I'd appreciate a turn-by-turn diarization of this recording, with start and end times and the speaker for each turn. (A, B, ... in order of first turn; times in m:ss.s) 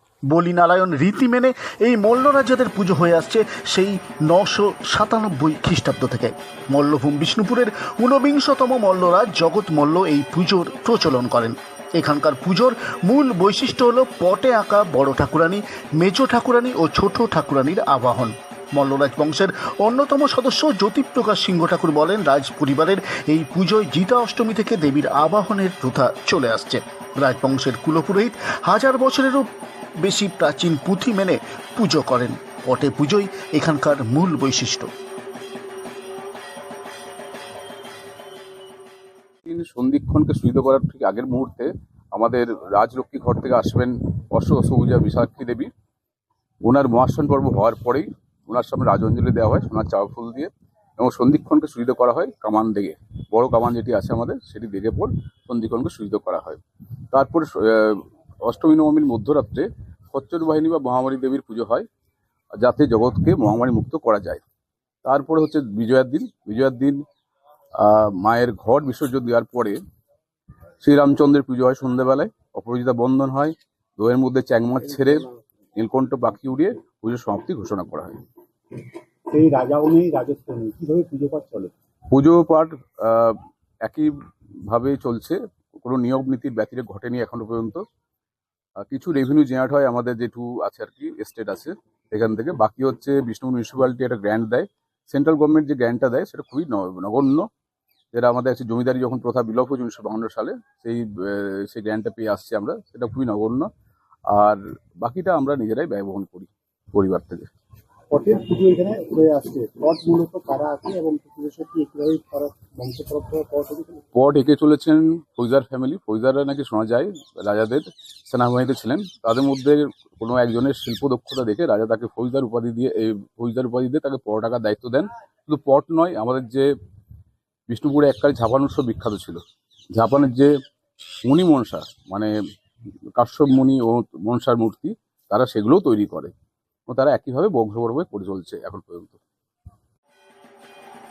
0:00.3-0:29.5 A
0:30.0-0:34.9 A
0:39.4-0:45.7 B
0:46.6-1:01.8 B
1:02.6-1:04.4 B
1:05.0-1:07.0 B
1:07.8-1:09.8 B
1:10.8-1:18.2 B
1:19.3-1:21.7 C
1:22.1-1:24.1 B
1:24.7-1:27.8 B
1:28.8-1:37.4 B
1:38.1-1:43.7 B
1:44.3-1:47.5 B
1:48.1-1:54.0 C
1:54.1-2:06.7 B
2:07.7-2:09.4 B
2:09.9-2:10.5 B
2:11.2-2:12.3 B
2:13.1-2:16.3 B
2:16.9-2:19.2 B